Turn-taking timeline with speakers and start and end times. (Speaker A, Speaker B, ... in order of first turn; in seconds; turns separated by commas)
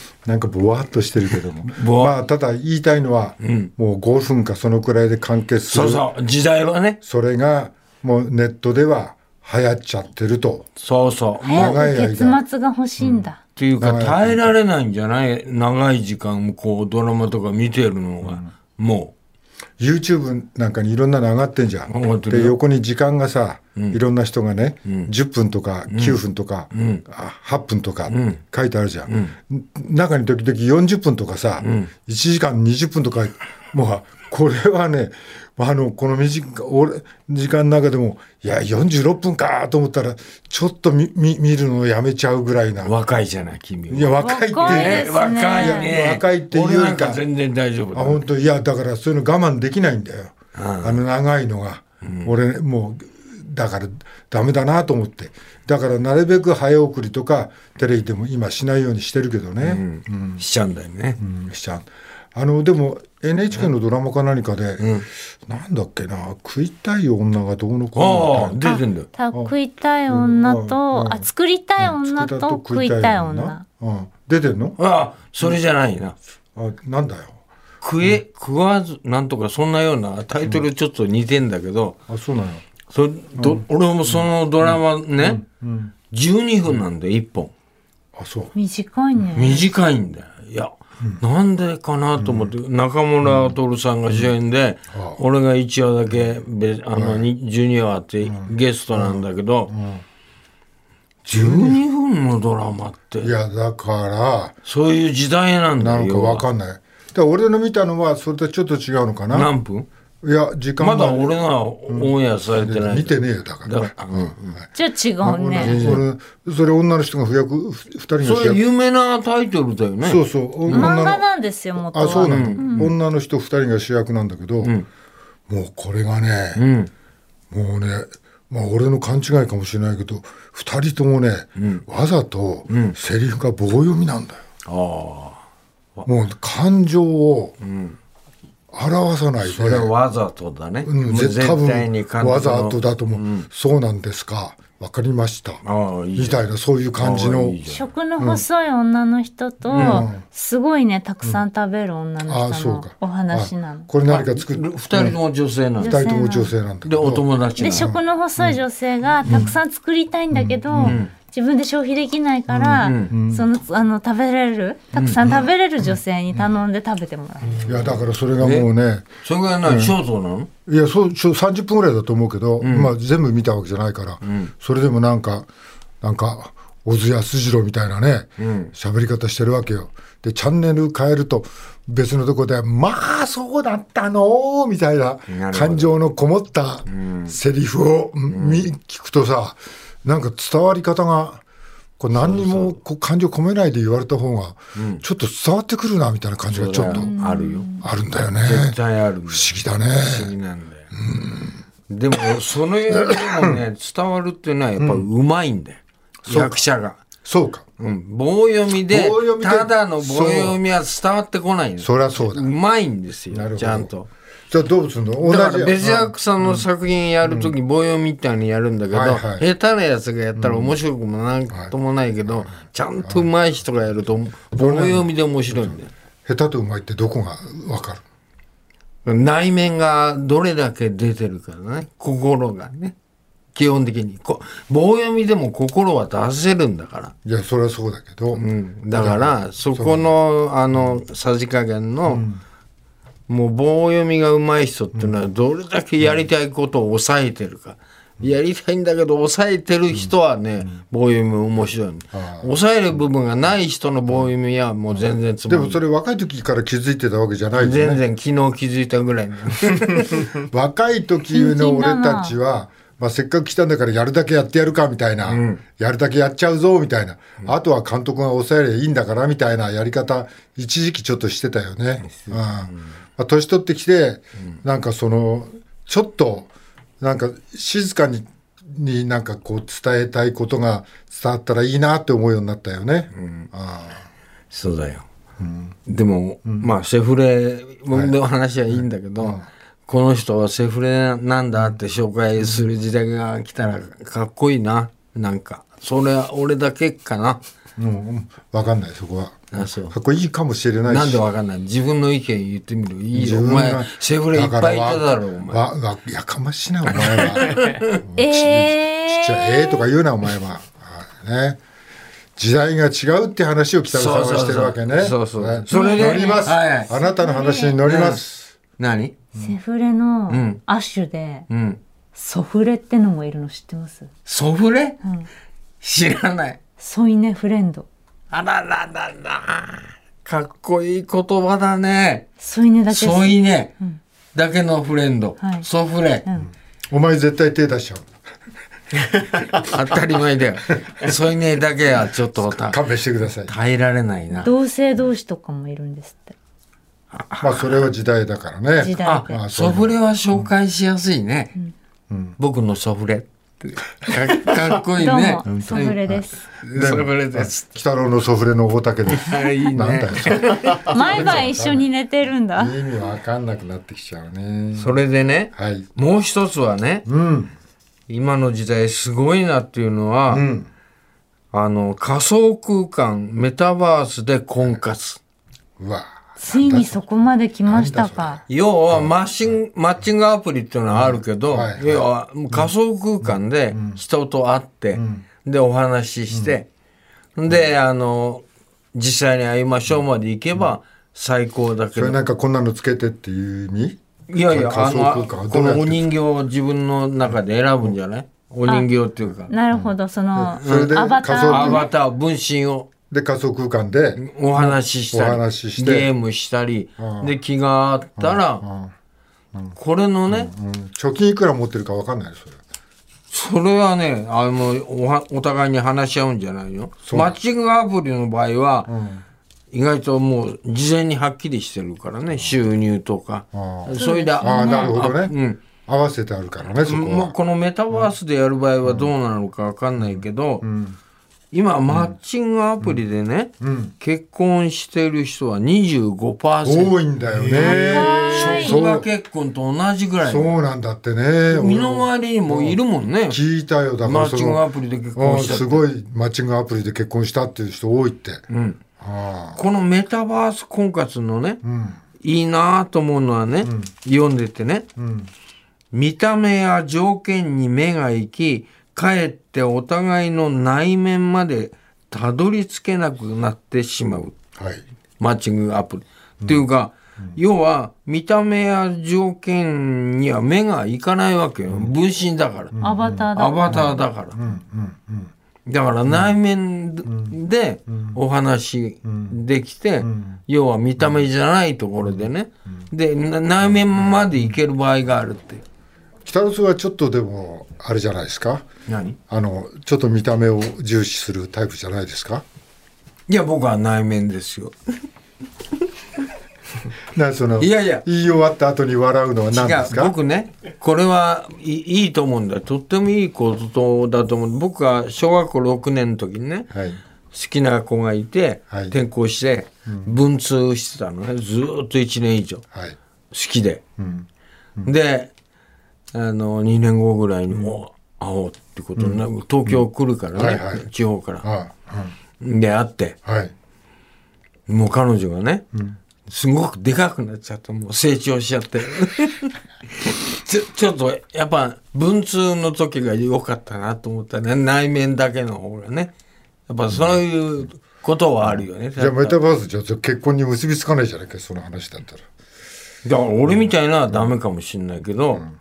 Speaker A: 0.2-6.0, Speaker B: 1.7-2.2, Speaker B: 3.4-3.7, Speaker B: 5.7-7.0, Speaker A: 7.0-10.7, Speaker B: 10.8-11.8, Speaker C: 11.4-13.4, Speaker A: 11.5-12.4, Speaker B: 13.2-19.1, Speaker A: 13.8-14.5, Speaker A: 19.8-42.9, Speaker B: 21.9-22.6, Speaker B: 24.8-25.1, Speaker B: 25.9-26.2, Speaker B: 26.7-27.0, Speaker B: 28.1-28.4, Speaker B: 29.1-29.3, Speaker B: 31.6-31.9, Speaker B: 42.8-48.2, Speaker A: 43.9-47.2, Speaker C: 44.2-45.9, Speaker A: 47.9-60.4, Speaker B: 50.5-51.0, Speaker B: 52.0-52.3, Speaker B: 59.6-61.2, Speaker A: 61.2-68.6, Speaker B: 64.8-65.0, Speaker B: 67.9-69.1, Speaker C: 68.6-73.6, Speaker A: 70.1-71.3, Speaker A: 71.8-74.8, Speaker B: 74.8-76.2, Speaker A: 76.5-77.4, Speaker B: 77.8-82.0, Speaker A: 82.1-82.6, Speaker B: 82.9-85.4, Speaker A: 83.4-85.9, Speaker B: 86.1-87.5, Speaker A: 88.1-88.5, Speaker C: 88.5-89.7, Speaker B: 89.3-99.7, Speaker A: 92.2-92.5, Speaker A: 93.2-93.6, Speaker A: 94.9-95.2, Speaker A: 96.9-97.3, Speaker A: 98.2-100.0, Speaker A: 101.2-101.8, Speaker B: 101.3-103.3, Speaker A: 103.2-104.6, Speaker B: 104.6-106.5, Speaker A: 105.8-109.5, Speaker B: 109.3-109.9, Speaker A: 110.2-114.7, Speaker B: 110.8-114.5, Speaker C: 114.7-116.0, Speaker A: 115.2-118.6, Speaker B: 115.6-116.0, Speaker B: 118.2-121.0, Speaker A: 120.0-124.8, Speaker C: 120.7-122.9, Speaker B: 122.0-122.9, Speaker A: 125.5-126.6, Speaker B: 126.5-126.9, Speaker A: 127.5-134.4, Speaker B: 131.6-131.8, Speaker B: 132.7-132.9, Speaker B: 134.7-135.4, Speaker A: 136.1-137.6, Speaker B: 137.6-138.0, Speaker A: 138.7-139.9, Speaker B: 139.4-143.5, Speaker A: 140.8-145.6, Speaker B: 145.6-146.4, Speaker A: 146.2-147.6, Speaker B: 146.9-147.9, Speaker C: 147.7-153.9, Speaker A: 148.2-148.4, Speaker B: 149.7-150.1, Speaker A: 149.7-150.2, Speaker A: 152.2-155.2, Speaker B: 154.1-156.0, Speaker A: 155.8-158.6, Speaker C: 155.8-156.5, Speaker B: 156.8-157.9, Speaker C: 157.6-167.6, Speaker A: 159.2-159.6, Speaker A: 160.3-161.0, Speaker B: 160.8-161.1, Speaker A: 162.5-163.5, Speaker B: 162.7-163.1, Speaker B: 164.9-165.2, Speaker A: 165.2-166.5, Speaker B: 167.5-168.7, Speaker A: 167.6-169.1, Speaker B: 169.2-170.5, Speaker A: 169.6-169.9, Speaker A: 170.7-175.5, Speaker B: 172.6-172.9, Speaker B: 174.2-174.5, Speaker A: 176.0-191.4, Speaker B: 178.4-178.7, Speaker B: 185.3-185.9, Speaker B: 186.9-187.4, Speaker B: 188.3-188.7, Speaker A: 192.0-197.1, Speaker B: 192.1-192.8, Speaker B: 194.8-195.0, Speaker B: 196.5-200.9, Speaker C: 196.9-197.8, Speaker A: 197.8-200.3, Speaker A: 200.9-201.6, Speaker B: 201.9-207.0, Speaker A: 202.9-203.6, Speaker A: 204.8-205.1, Speaker A: 206.2-206.7, Speaker A: 207.2-207.7, Speaker B: 207.8-214.1, Speaker A: 208.9-210.6, Speaker A: 211.8-212.5, Speaker A: 213.3-213.9, Speaker A: 214.5-216.7, Speaker B: 215.2-225.9, Speaker A: 217.2-217.5, Speaker A: 218.9-219.5, Speaker A: 220.3-220.8, Speaker A: 221.5-223.3, Speaker A: 224.5-228.0, Speaker B: 229.0-232.9, Speaker B: 233.5-237.1, Speaker A: 237.2-240.1, Speaker B: 238.3-242.2, Speaker A: 242.0-242.4, Speaker B: 243.3-255.8, Speaker A: 249.9-250.8, Speaker A: 252.1-252.9, Speaker A: 254.9-258.0, Speaker B: 257.6-260.3, Speaker A: 260.1-284.0, Speaker C: 261.3-262.4, Speaker B: 265.2-265.6, Speaker B: 272.0-272.9, Speaker B: 283.1-283.5, Speaker B: 284.5-285.0, Speaker A: 285.4-285.8, Speaker B: 285.9-297.4, Speaker A: 286.4-286.7, Speaker A: 287.9-288.1, Speaker A: 288.7-289.5, Speaker A: 292.4-292.6, Speaker A: 297.8-301.2, Speaker B: 299.5-299.9, Speaker B: 300.9-305.6, Speaker A: 303.1-311.6, Speaker B: 307.0-307.8, Speaker C: 308.1-309.8, Speaker A: 312.4-318.5, Speaker B: 313.9-316.9, Speaker C: 315.7-317.8, Speaker B: 317.8-318.2, Speaker B: 318.8-319.2, Speaker C: 319.4-321.5, Speaker B: 320.3-320.6, Speaker B: 321.5-321.8, Speaker C: 322.1-324.1, Speaker B: 324.2-325.0, Speaker B: 325.8-326.6, Speaker C: 326.8-327.9, Speaker B: 328.3-332.3, Speaker C: 332.4-334.0, Speaker B: 332.9-333.7, Speaker B: 334.3-336.2, Speaker C: 335.4-335.7, Speaker A: 336.9-338.1, Speaker B: 339.1-342.9, Speaker A: 342.4-343.5, Speaker B: 343.4-344.5, Speaker C: 344.3-346.3, Speaker B: 347.1-347.9, Speaker A: 347.4-350.5, Speaker C: 348.8-349.4, Speaker B: 349.0-351.5, Speaker A: 352.1-352.4, Speaker B: 352.4-357.7, Speaker C: 355.0-356.4, Speaker A: 355.4-361.9, Speaker B: 359.1-361.5, Speaker C: 360.8-362.8, Speaker A: 362.5-365.0, Speaker B: 364.8-367.1, Speaker A: 365.5-365.9, Speaker A: 367.1-367.5, Speaker B: 368.1-370.4, Speaker A: 370.3-370.7, Speaker B: 371.5-375.2, Speaker A: 375.8-377.0, Speaker C: 376.4-378.4, Speaker A: 377.6-379.6, Speaker B: 378.5-386.7, Speaker A: 380.9-384.0, Speaker A: 384.9-385.2, Speaker A: 386.3-386.6, Speaker B: 387.4-392.2, Speaker A: 391.9-396.1, Speaker B: 394.3-399.5, Speaker C: 398.6-398.9, Speaker C: 399.5-401.9, Speaker A: 399.7-401.9, Speaker B: 400.6-402.9, Speaker A: 403.1-406.1, Speaker B: 404.2-408.6, Speaker A: 407.0-407.4, Speaker A: 408.2-408.9, Speaker B: 409.8-410.5, Speaker A: 410.3-412.6, Speaker B: 413.3-418.9, Speaker A: 417.0-417.4, Speaker A: 418.9-419.2, Speaker B: 419.7-425.6, Speaker A: 423.5-425.3, Speaker C: 424.0-425.0, Speaker A: 425.9-427.3, Speaker B: 426.7-430.6, Speaker A: 428.8-429.1, Speaker A: 430.0-431.0, Speaker B: 431.5-440.6, Speaker A: 431.9-432.1, Speaker A: 433.6-433.9, Speaker A: 436.6-439.1, Speaker C: 437.6-438.8, Speaker A: 440.2-444.6, Speaker B: 441.5-443.4, Speaker B: 444.0-445.9, Speaker A: 445.1-448.4, Speaker B: 448.5-448.8, Speaker A: 449.0-449.6, Speaker B: 449.5-451.6, Speaker A: 451.6-452.0, Speaker B: 452.2-454.9, Speaker A: 453.6-453.9, Speaker A: 455.0-455.3, Speaker B: 455.9-464.3, Speaker A: 464.6-464.8, Speaker B: 465.2-472.8, Speaker A: 472.7-475.3, Speaker C: 472.8-474.0, Speaker B: 473.3-474.4, Speaker B: 475.6-485.6, Speaker A: 476.1-476.3, Speaker A: 477.0-477.4, Speaker A: 477.9-478.2, Speaker A: 479.0-479.4, Speaker A: 480.0-480.4, Speaker A: 481.0-481.2, Speaker A: 483.7-484.6, Speaker A: 486.2-488.6, Speaker B: 488.9-489.2, Speaker A: 489.3-492.4, Speaker B: 493.3-494.8, Speaker A: 497.1-500.1, Speaker B: 497.6-498.0, Speaker B: 499.5-506.7, Speaker A: 506.7-507.0, Speaker B: 507.3-512.6, Speaker A: 508.7-509.0, Speaker A: 509.9-510.2, Speaker B: 513.3-513.8, Speaker A: 514.0-514.2, Speaker B: 514.8-515.3, Speaker B: 516.1-521.4, Speaker A: 519.0-520.9, Speaker A: 521.4-522.1, Speaker B: 522.4-523.1, Speaker A: 523.2-523.5, Speaker B: 524.7-525.6, Speaker B: 526.3-536.1, Speaker B: 536.7-539.4, Speaker A: 538.6-542.2, Speaker B: 543.0-545.4